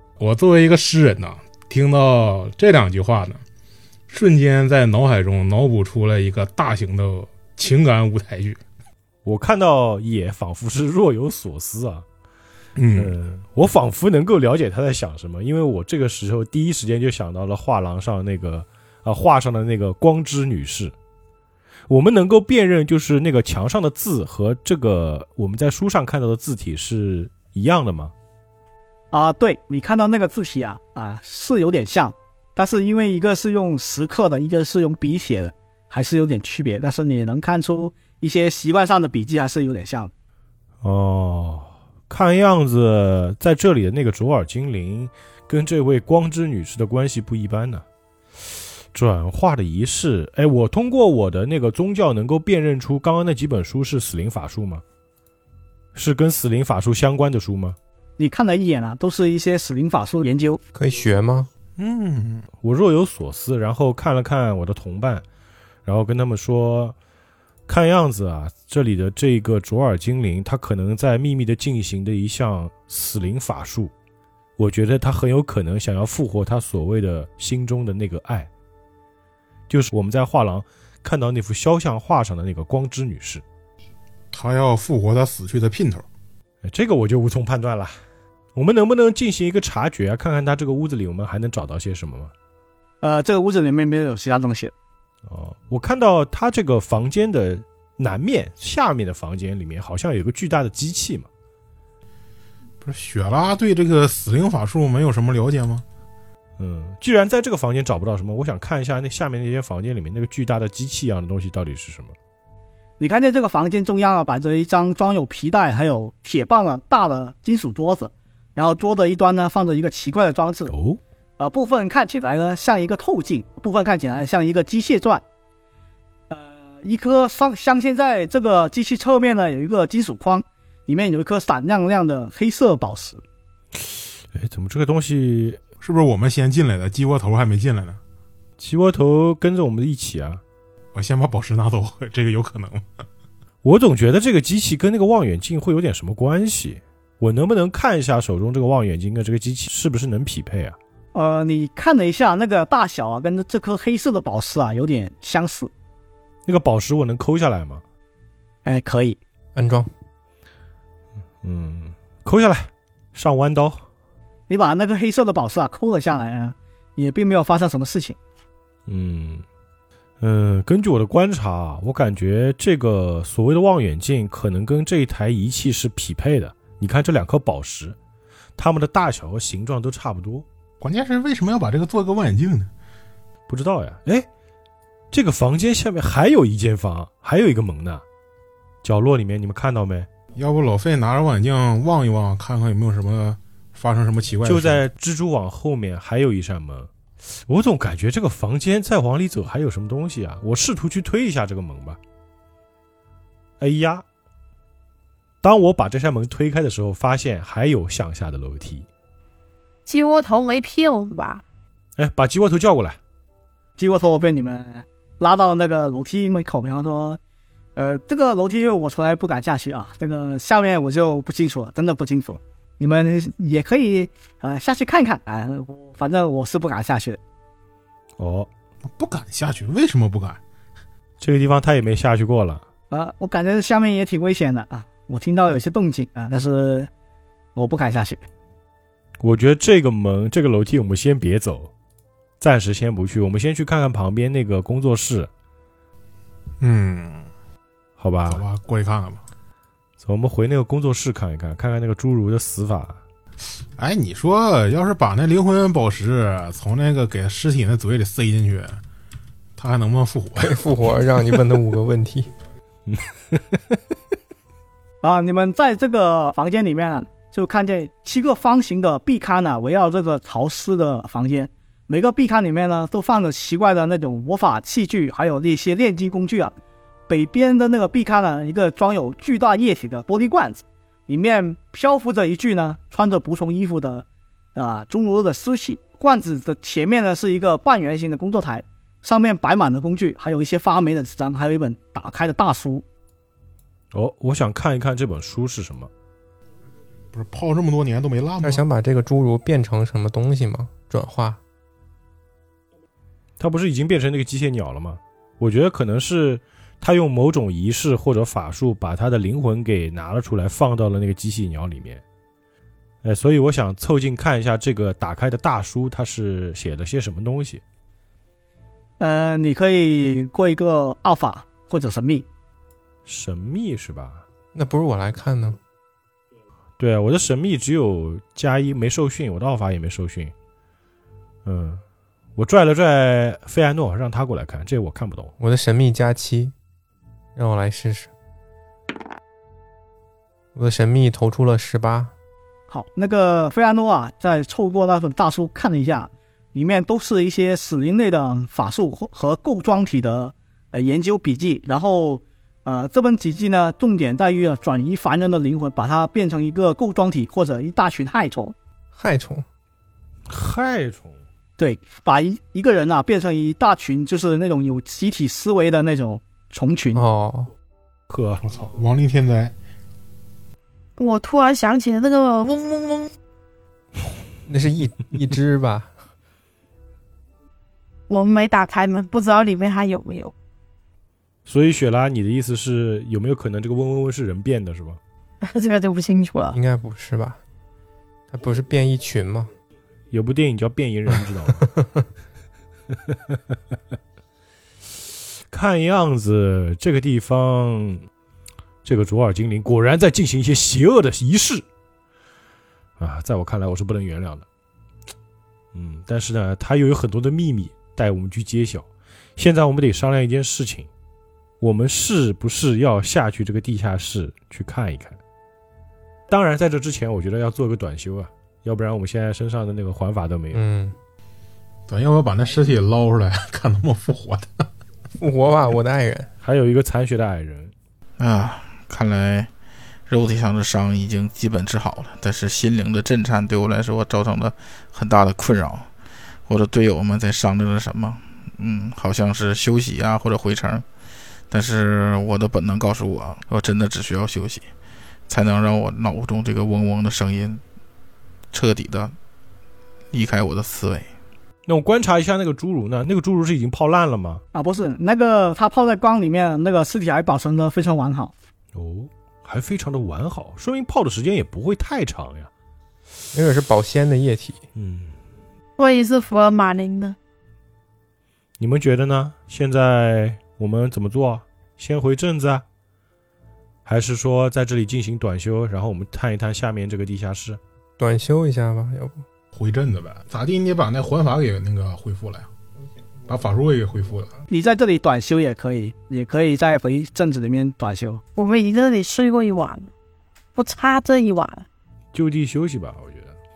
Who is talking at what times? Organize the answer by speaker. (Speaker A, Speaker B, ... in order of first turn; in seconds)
Speaker A: 0.2-3.4, 4.1-8.6, 12.8-13.1, 61.8-62.5, 84.3-86.1, 102.8-105.8, 135.8-138.0, 140.9-142.8, 180.8-182.7, 190.4-194.8, 229.0-230.4, 246.6-247.3, 248.3-249.2, 253.8-258.8, 259.6-260.6, 297.1-298.6, 368.4-369.5, 421.9-424.7, 479.5-482.5, 483.3-484.3
Speaker B: 9.2-12.1, 13.0-20.9, 21.9-28.1, 40.8-47.9, 48.9-54.8, 56.0-57.8, 62.6-65.2, 65.8-67.0, 67.7-73.9, 74.6-78.5, 79.7-83.4, 86.6-88.0, 88.5-92.3, 95.3-101.3, 106.6-112.1, 120.7-121.0, 133.8-135.6, 138.6-140.4, 143.6-150.8, 156.5-157.8, 161.4-163.8, 168.9-169.4, 170.2-178.0, 178.6-180.5, 183.5-184.3, 185.1-188.0, 188.8-190.1, 194.4-202.0, 203.6-204.1, 205.4-208.9, 212.0-213.0, 228.2-228.5, 231.2-232.6, 239.2-241.7, 242.4-245.3, 248.0-248.4, 250.0-253.0, 262.9-263.6, 293.9-295.9, 303.4-312.0, 313.0-317.6, 323.1-324.2, 326.8-330.3, 331.4-331.8, 332.4-335.3, 360.3-361.2, 368.1-368.4, 381.5-385.0, 390.1-391.6, 392.9-393.4, 395.5-398.1, 398.8-401.6, 403.0-404.4, 405.7-410.9, 411.6-415.2, 416.3-420.6, 426.4-427.7, 451.7-454.4, 458.7-462.5, 464.8-465.1, 468.6-472.6, 473.9-477.6, 492.1-493.3
Speaker C: 29.1-40.1, 58.2-60.6, 93.0-94.7, 113.0-120.7, 121.4-125.2, 126.3-133.2, 151.1-155.7, 158.6-159.2, 164.5-168.2, 213.8-217.2, 217.8-227.2, 232.9-236.9, 237.6-238.2, 265.0-276.5, 277.1-292.8, 319.0-322.3, 342.7-358.6, 361.6-367.0, 454.5-458.3, 484.5-488.2
Speaker D: 60.7-61.5, 159.6-159.9, 260.4-262.3, 298.4-301.4, 324.5-325.6, 335.4-336.5, 337.4-338.1, 340.6-342.1, 358.9-359.5, 366.9-367.5, 374.5-375.9, 386.5-387.4, 388.3-389.5, 391.6-392.0, 420.5-421.0, 425.2-426.3, 463.3-464.6, 478.0-479.2
Speaker E: 209.9-211.4, 371.0-373.1, 378.1-380.3, 385.4-386.6, 465.8-467.2, 488.4-489.9, 490.6-491.7
Speaker F: 428.2-429.5, 430.1-435.9, 436.5-440.8, 441.5-444.6, 445.3-447.6, 448.5-449.1, 450.1-451.1